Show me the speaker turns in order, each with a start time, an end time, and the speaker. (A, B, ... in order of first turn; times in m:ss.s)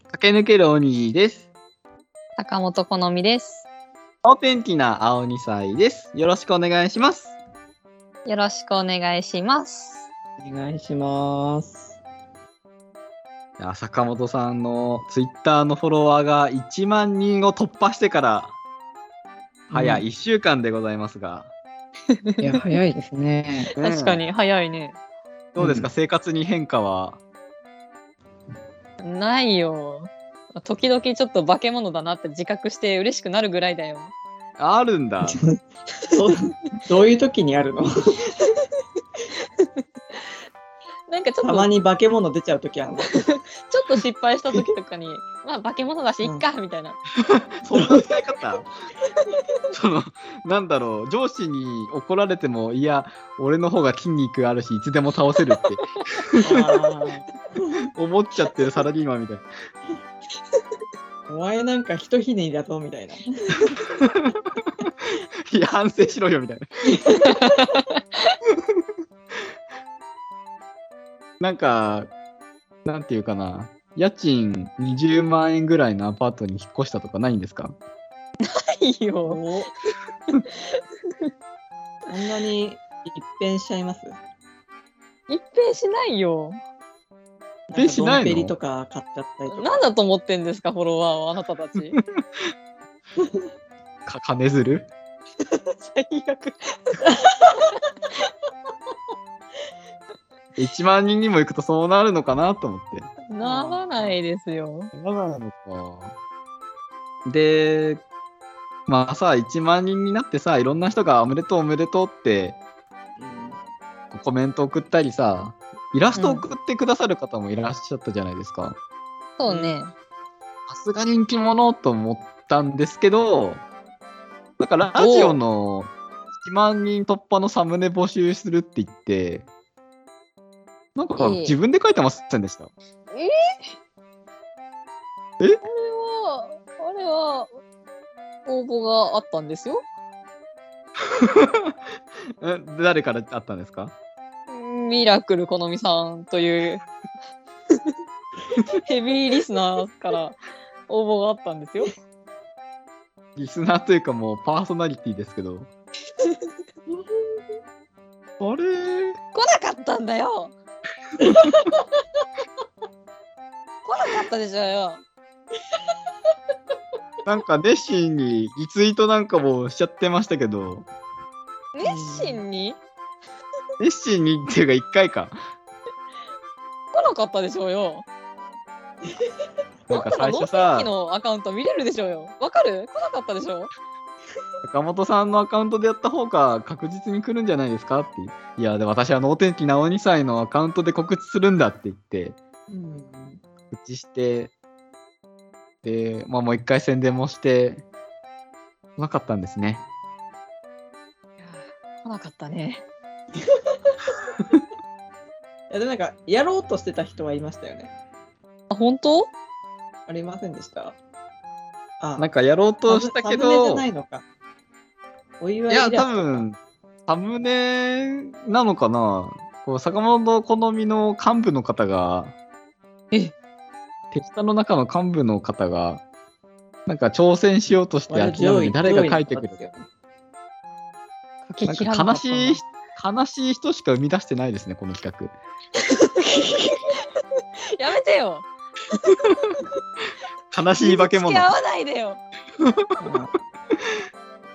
0:00.1-0:01.4 A
0:02.4-0:03.7 B
0:04.2-0:07.4 A
0:08.2-0:10.1 B
0:10.4-0:12.0 C
0:13.6-0:18.5 A
0:19.7-0:20.0 C
0:19.7-0:21.5 A
0:22.2-0:22.6 B
0:22.4-0:23.7 C
0:23.7-0:24.2 A
0:23.8-0:25.0 B
0:25.5-0:27.2 A
0:25.6-0:25.9 C
0:29.0-0:34.1 B
0:34.6-0:35.4 A
0:35.2-0:38.2 C
0:39.3-0:40.3 B
0:41.1-0:41.7 B
0:41.4-0:43.2 C
0:43.1-0:47.0 B
0:47.3-0:48.7 A
0:49.7-0:56.7 A
0:56.4-0:57.9 C
0:58.0-0:59.4 A
1:01.3-1:03.6 C
1:03.8-1:06.6 A
1:06.9-1:07.5 C
1:07.2-1:08.4 B
1:08.5-1:08.8 A
1:11.4-1:12.1 A
1:12.8-1:17.7 A
1:18.4-1:19.4 B
1:19.2-1:19.7 C
1:20.3-1:21.3 B
1:22.1-1:24.2 C
1:25.3-1:26.6 B
1:27.7-1:29.8 C
1:27.8-1:28.5 A
1:29.5-1:32.0 B
1:31.9-1:32.5 A
1:34.0-1:34.9 A
1:35.4-1:37.7 B
1:40.6-1:43.1 A
1:43.3-1:44.9 B
1:43.4-1:44.2 C
1:44.9-1:46.1 A
1:47.2-1:48.0 A
1:48.9-1:52.6 A
1:53.2-1:53.6 C
1:54.1-1:58.8 A
1:56.2-1:56.4 B
1:59.4-1:59.9 B
1:59.5-1:59.8 C
2:00.7-2:03.6 A
2:04.6-2:09.5 A
2:05.0-2:05.4 B
2:10.9-2:12.7 A
2:11.2-2:11.6 B
2:13.1-2:13.6 B
2:15.6-2:17.5 B
2:18.4-2:19.8 B
2:21.0-2:21.8 A
2:22.4-2:23.9 A
2:24.5-2:26.8 B
2:28.8-2:31.9 B
2:33.4-2:35.7 A
2:37.0-2:37.2 C
2:38.4-2:39.2 A
2:39.3-2:40.5 B
2:41.2-2:41.8 C
2:43.8-2:45.0 B
2:47.2-2:50.9 A
2:51.7-2:52.8 B
2:51.8-2:52.4 C
2:53.8-2:55.4 A
2:56.9-2:58.0 B
2:59.9-3:00.9 A
2:59.9-3:03.7 B
3:04.6-3:12.4 A
3:12.7-3:13.4 C
3:13.7-3:14.5 A
3:15.8-3:17.8 A
3:19.0-3:19.8 A
3:21.4-3:22.8 B
3:25.7-3:27.9 C
3:28.7-3:29.3 B
3:30.1-3:31.0 C
3:32.0-3:32.3 C
3:32.2-3:33.8 A
3:32.9-3:34.2 C
3:35.4-3:36.4 C
3:35.7-3:42.3 A
3:44.1-3:46.0 A
3:46.8-3:49.6 A
3:48.1-3:49.9 C
3:51.4-3:52.6 B
3:51.6-3:55.3 A
3:55.8-3:56.2 B
3:56.4-3:56.8 C
3:57.7-3:58.5 B
4:00.5-4:01.5 A
4:00.8-4:02.2 B
4:02.6-4:02.9 A
4:03.0-4:03.3 C